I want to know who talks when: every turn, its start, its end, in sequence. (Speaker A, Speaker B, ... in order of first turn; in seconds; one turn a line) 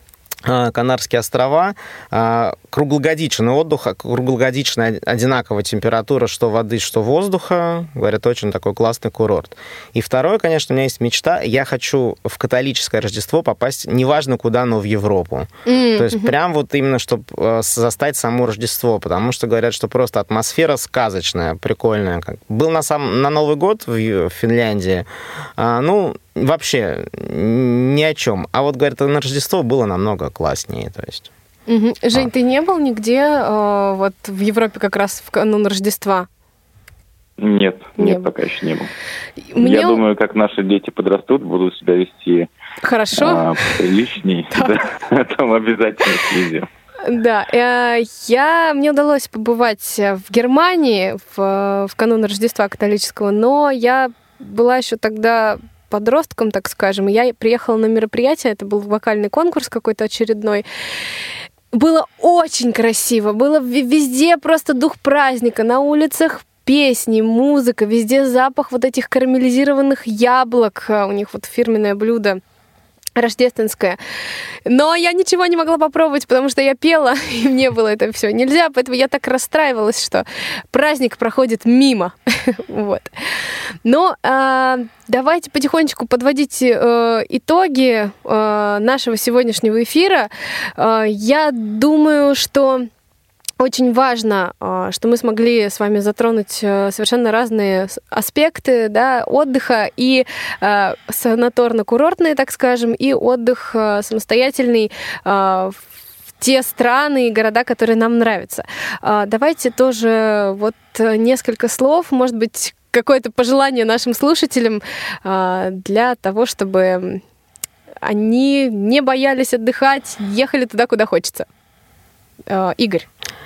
Speaker A: 0.5-31.3
Speaker B: 15.7-16.3
Speaker B: 31.7-36.3
Speaker C: 37.4-38.9
Speaker B: 38.0-38.3
Speaker B: 39.5-40.0
Speaker C: 39.6-42.5
Speaker B: 42.8-43.8
Speaker C: 43.2-46.7
Speaker B: 47.1-60.6
Speaker B: 61.7-72.4
Speaker B: 73.2-74.0
Speaker B: 74.7-83.1
Speaker B: 83.8-92.9
Speaker B: 93.6-105.8
Speaker B: 106.4-117.2
Speaker B: 118.0-121.5
Speaker B: 122.5-123.1